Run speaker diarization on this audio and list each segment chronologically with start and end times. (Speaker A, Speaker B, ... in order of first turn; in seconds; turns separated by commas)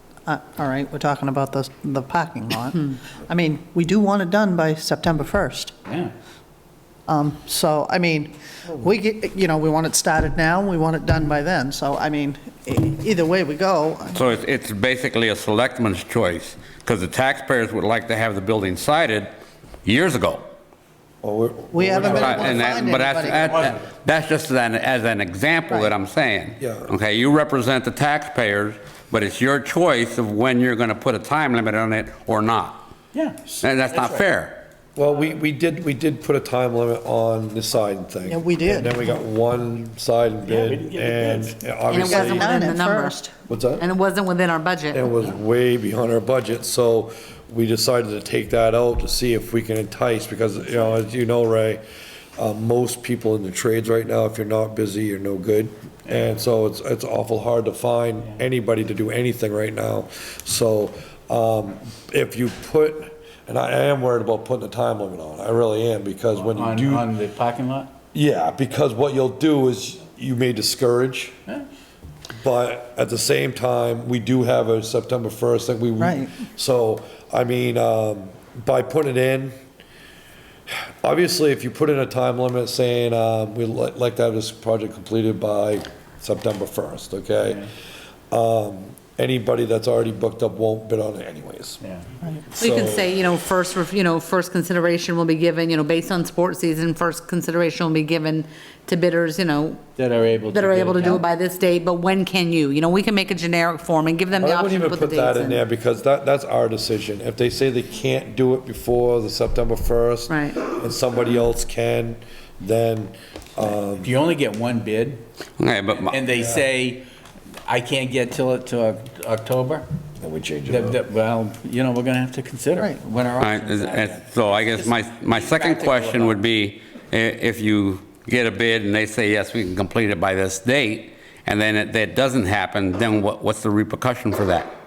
Speaker A: 0.2-5.7, Speaker B: 5.9-6.1, Speaker A: 7.1-14.2, Speaker C: 14.1-19.3, Speaker C: 19.8-20.5, Speaker D: 21.2-22.7, Speaker A: 21.7-23.7, Speaker C: 21.9-32.9, Speaker B: 23.5-23.8, Speaker D: 26.6-26.9, Speaker B: 33.1-34.2, Speaker C: 33.6-34.6, Speaker D: 35.0-42.7, Speaker A: 38.2-39.0, Speaker B: 40.5-41.6, Speaker E: 41.9-43.2, Speaker A: 42.0-43.3, Speaker D: 43.5-43.9, Speaker E: 43.8-45.0, Speaker D: 44.9-51.8, Speaker D: 52.4-67.1, Speaker B: 66.3-67.9, Speaker D: 68.1-71.4, Speaker D: 72.4-79.5, Speaker A: 76.0-76.3, Speaker D: 81.0-87.7, Speaker B: 87.4-87.7, Speaker D: 88.3-91.8, Speaker D: 92.5-93.1, Speaker E: 92.6-99.8, Speaker B: 100.0-101.2, Speaker E: 100.5-105.6, Speaker D: 104.3-114.1, Speaker E: 110.3-110.5, Speaker B: 114.0-115.2, Speaker C: 115.6-116.2, Speaker B: 115.9-117.0, Speaker D: 116.3-116.6, Speaker B: 117.7-119.9, Speaker D: 120.2-121.0, Speaker B: 120.7-126.4, Speaker C: 123.4-134.7